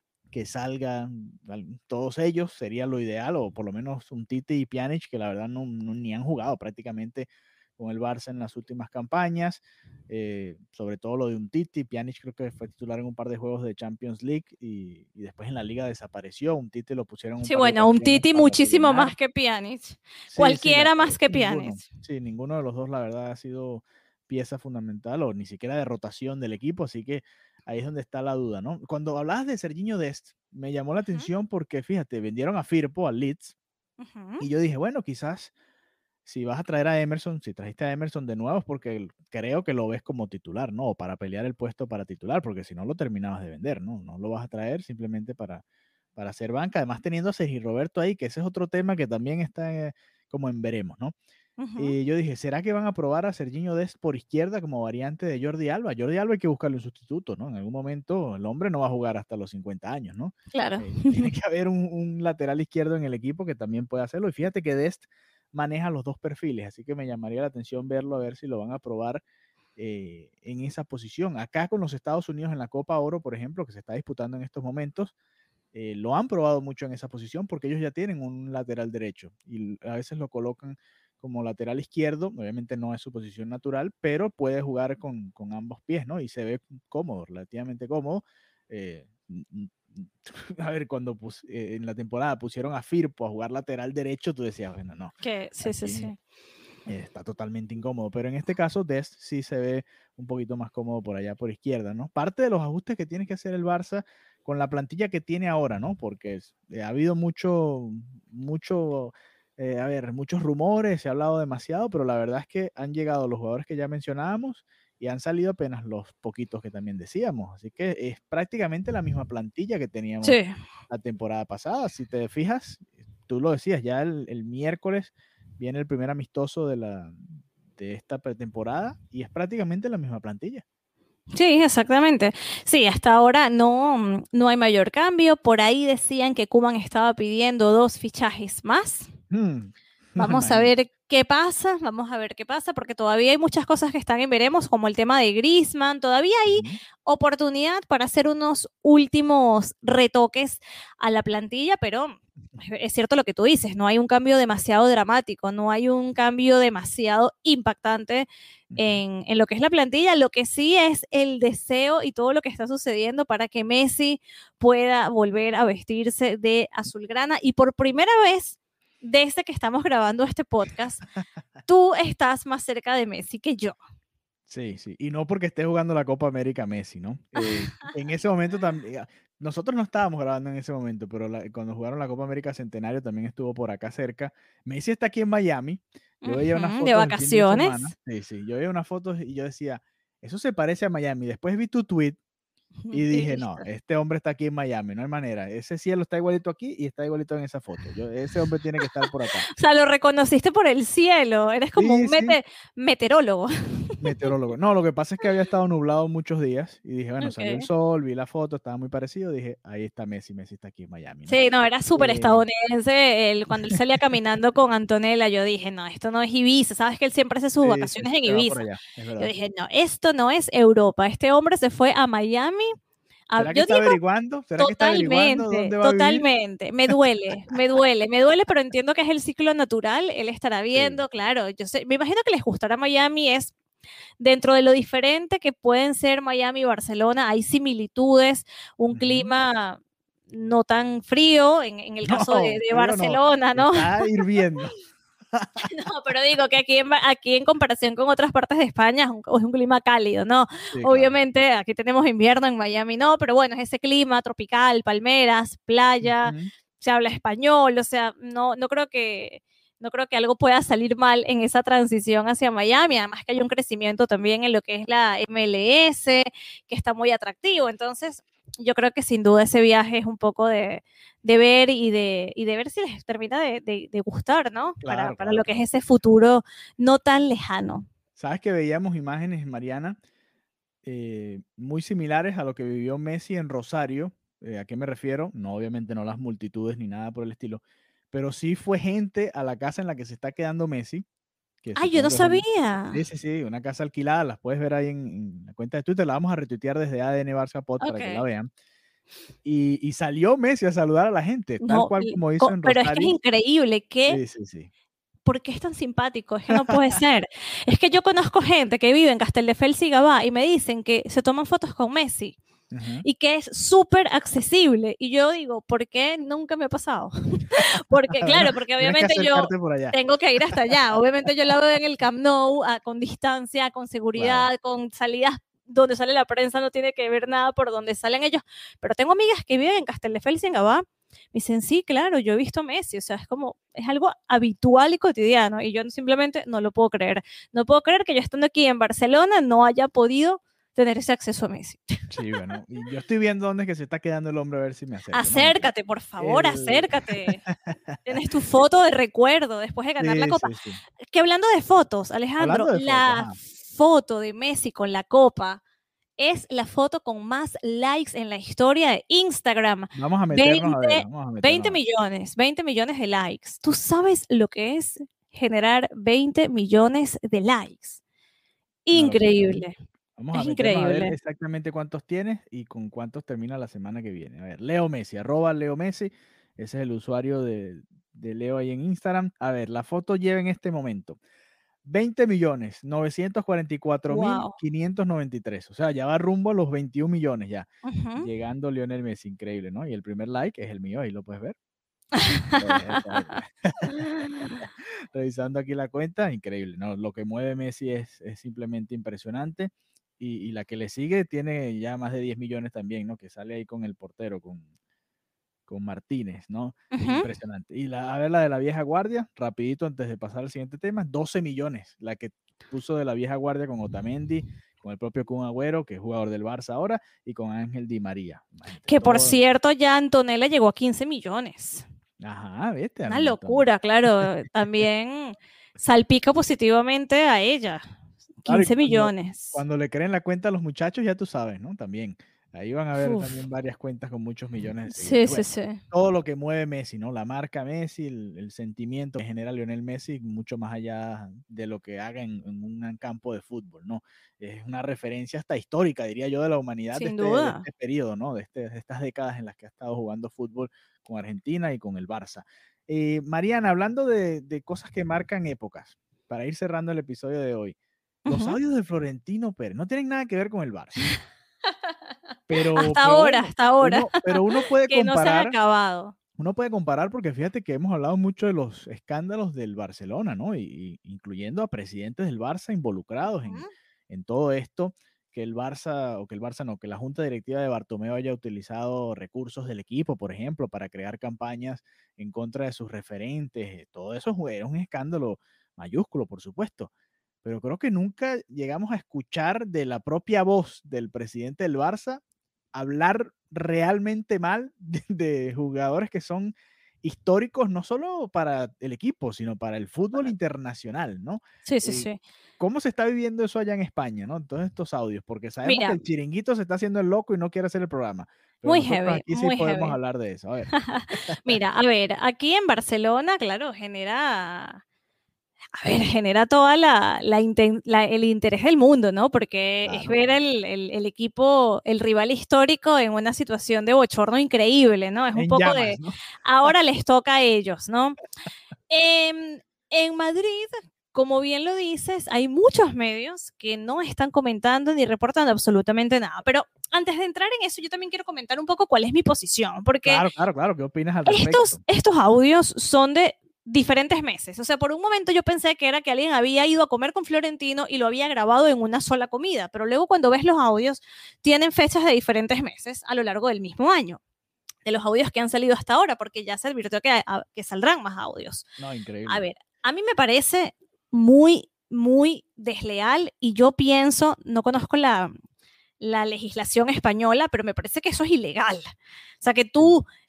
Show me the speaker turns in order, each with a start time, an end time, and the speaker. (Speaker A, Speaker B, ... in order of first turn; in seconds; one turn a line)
Speaker A: 0.3-19.1
Speaker B: 17.4-21.8
Speaker A: 20.3-33.5
Speaker B: 34.0-34.4
Speaker A: 34.4-35.5
Speaker A: 36.2-45.6
Speaker A: 46.1-51.1
Speaker B: 51.6-52.0
Speaker A: 51.8-69.2
Speaker B: 60.5-61.3
Speaker A: 69.8-75.1
Speaker A: 75.7-96.1
Speaker B: 95.2-96.2
Speaker A: 96.8-120.4
Speaker B: 120.2-120.5
Speaker A: 120.9-130.6
Speaker B: 131.3-139.1
Speaker A: 139.3-140.7
Speaker B: 140.2-171.0
Speaker A: 146.5-146.8
Speaker A: 158.7-159.0
Speaker B: 171.7-173.8
Speaker A: 174.5-192.2
Speaker B: 177.4-177.9
Speaker B: 186.2-187.9
Speaker B: 192.8-193.7
Speaker A: 192.9-199.5
Speaker B: 199.5-204.3
Speaker A: 201.8-202.4
Speaker A: 204.0-211.4
Speaker B: 207.2-207.7
Speaker B: 211.3-218.7
Speaker A: 211.9-212.4
Speaker A: 217.6-219.3
Speaker B: 219.2-222.7
Speaker B: 223.3-224.0
Speaker A: 223.4-226.2
Speaker B: 224.6-233.5
Speaker A: 230.7-231.0
Speaker B: 234.2-244.1
Speaker A: 238.9-239.3
Speaker A: 242.1-244.7
Speaker A: 245.3-245.7
Speaker B: 245.6-277.9
Speaker A: 250.7-251.1
Speaker A: 256.0-256.5
Speaker A: 274.8-275.6
Speaker A: 278.2-280.0
Speaker A: 280.8-291.0
Speaker A: 291.6-298.5
Speaker B: 291.7-293.0
Speaker B: 297.8-298.2
Speaker A: 299.4-303.2
Speaker B: 301.6-304.2
Speaker A: 304.1-304.7
Speaker B: 305.2-312.4
Speaker A: 312.7-313.0
Speaker B: 313.0-342.0
Speaker A: 318.2-320.0
Speaker A: 324.1-324.5
Speaker A: 342.1-348.0
Speaker B: 345.1-347.4
Speaker B: 348.0-350.5
Speaker A: 350.0-350.8
Speaker B: 351.1-355.6
Speaker A: 352.4-353.4
Speaker B: 356.2-368.0
Speaker A: 359.9-361.8
Speaker B: 368.9-369.8
Speaker A: 368.9-369.6
Speaker A: 370.2-381.2
Speaker B: 370.3-371.1
Speaker A: 381.8-391.6
Speaker B: 384.1-384.6
Speaker B: 387.8-388.3
Speaker B: 392.1-394.6
Speaker A: 392.6-393.9
Speaker A: 395.0-404.7
Speaker A: 405.7-419.4
Speaker B: 406.9-407.3
Speaker B: 418.9-421.8
Speaker A: 422.2-423.6
Speaker B: 423.1-427.8
Speaker B: 428.4-429.6
Speaker A: 428.5-457.7
Speaker B: 433.0-433.4
Speaker B: 434.9-435.8
Speaker B: 446.9-447.6
Speaker B: 458.2-458.6
Speaker A: 458.3-461.1
Speaker A: 462.5-465.6
Speaker B: 462.7-466.1
Speaker A: 466.4-486.9
Speaker B: 473.4-473.7
Speaker A: 487.4-492.2
Speaker A: 492.7-511.6
Speaker B: 501.6-502.2
Speaker B: 505.6-506.0
Speaker B: 508.6-510.0
Speaker B: 510.7-514.8
Speaker B: 515.8-528.2
Speaker A: 519.8-520.2
Speaker A: 525.3-526.1
Speaker B: 528.9-540.2
Speaker A: 540.0-541.8
Speaker B: 541.3-554.2
Speaker B: 554.8-558.6
Speaker A: 558.8-559.5
Speaker B: 559.3-565.3
Speaker B: 566.0-568.9
Speaker B: 569.4-570.0